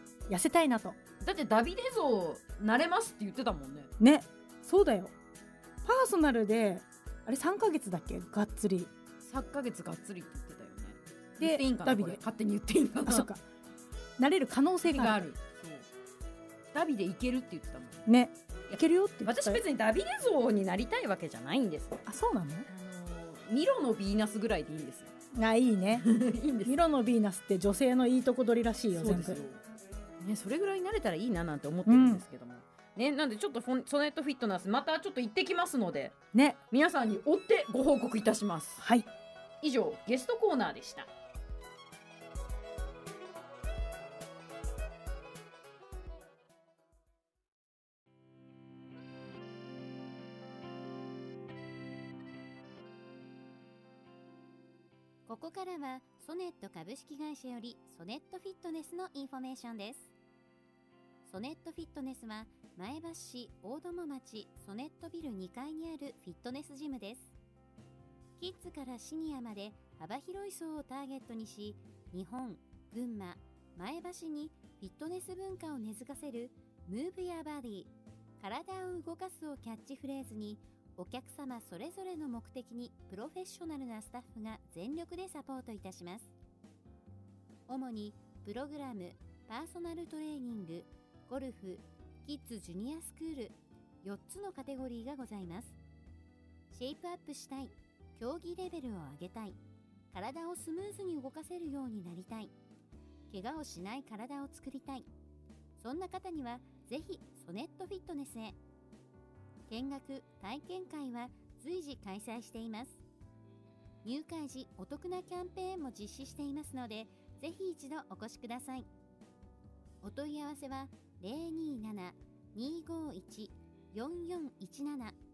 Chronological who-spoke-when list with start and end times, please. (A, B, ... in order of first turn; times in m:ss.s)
0:00.3-0:01.0 A
0:01.2-0:03.9 B
0:04.0-0:05.1 A
0:05.8-0:08.9 A
0:09.2-0:13.3 B
0:11.4-0:12.2 A
0:13.0-0:13.4 A
0:14.2-0:15.2 A
0:14.8-0:15.9 B
0:16.7-0:18.0 B
0:18.0-0:19.6 A
0:18.7-0:22.0 B
0:22.0-0:22.7 A
0:22.6-0:25.1 B
0:25.3-0:26.1 A
0:26.0-0:26.7 B
0:26.6-0:29.4 A
0:28.9-0:29.6 B
0:30.2-0:36.2 B
0:31.8-0:32.2 A
0:36.3-0:36.6 A
0:36.7-0:38.8 B
0:38.8-0:39.1 A
0:39.6-0:41.1 B
0:55.2-1:00.1 C
1:01.2-1:07.3 C
1:08.4-1:26.3 C
1:27.7-1:35.8 C
1:36.7-1:39.6 C
1:40.1-1:42.5 C
1:43.3-1:45.0 C
1:45.8-1:48.6 C
1:49.7-1:53.0 C
1:54.0-1:58.9 C
2:00.0-2:05.2 C